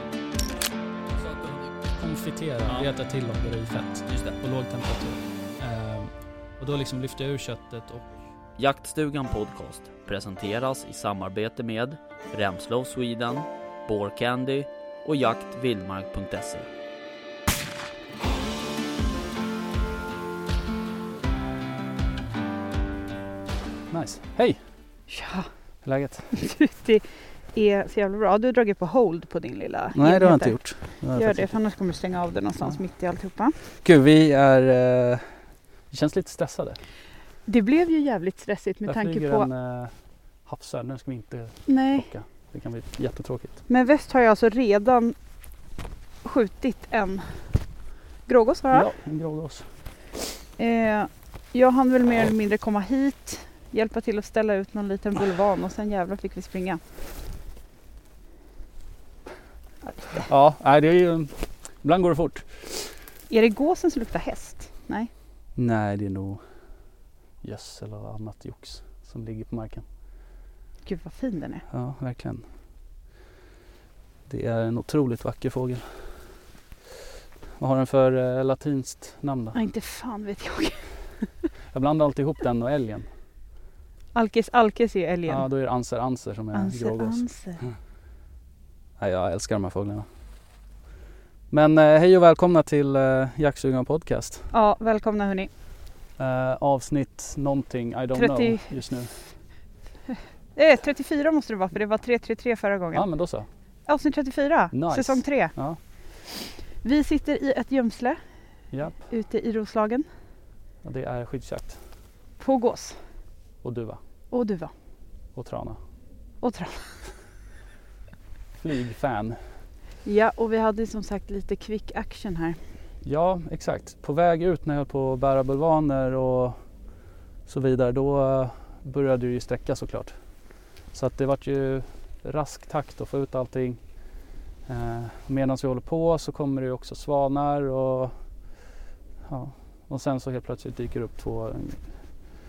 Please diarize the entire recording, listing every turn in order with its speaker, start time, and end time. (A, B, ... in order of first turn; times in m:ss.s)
0:01.2-0:08.2 A
0:04.1-0:04.4 B
0:08.6-0:16.7 B
0:23.9-0:24.6 A
0:25.1-0:25.5 C
0:25.8-0:26.3 A
0:26.3-0:33.6 C
0:29.9-0:31.6 A
0:33.8-0:35.3 A
0:35.9-0:36.8 A
0:37.4-0:39.5 C
0:38.8-0:39.9 A
0:40.4-0:43.6 A
0:41.7-0:42.1 C
0:43.7-0:45.2 C
0:46.2-0:47.4 C
0:48.3-0:48.9 C
0:48.7-0:49.6 A
0:50.6-0:56.8 C
1:00.2-1:02.9 A
1:03.3-1:05.1 C
1:05.6-1:06.4 A
1:07.4-1:09.8 A
1:10.8-1:11.6 C
1:11.7-1:12.4 A
1:14.3-1:16.3 A
1:17.6-1:19.6 A
1:19.5-1:21.3 C
1:21.7-1:23.1 A
1:24.1-1:25.4 C
1:25.3-1:27.7 A
1:26.5-1:27.6 C
1:29.0-1:30.1 A
1:31.5-1:34.5 A
1:34.5-1:35.5 C
1:36.2-1:39.1 A
1:38.1-1:38.8 C
1:40.1-1:43.0 C
1:42.9-1:43.5 A
1:43.9-1:45.5 C
1:44.7-1:45.8 A
1:46.7-1:48.2 C
1:48.7-1:49.0 A
1:48.9-1:50.1 C
1:50.8-1:51.8 A
1:52.4-1:53.0 C
1:53.6-1:54.0 A
1:54.3-1:54.7 C
1:55.3-1:55.8 A
1:56.4-1:57.0 C
1:58.6-1:59.5 A
2:00.0-2:02.6 C
2:03.0-2:06.6 A
2:07.5-2:10.1 A
2:10.9-2:13.9 A
2:14.6-2:18.2 A
2:19.2-2:22.0 A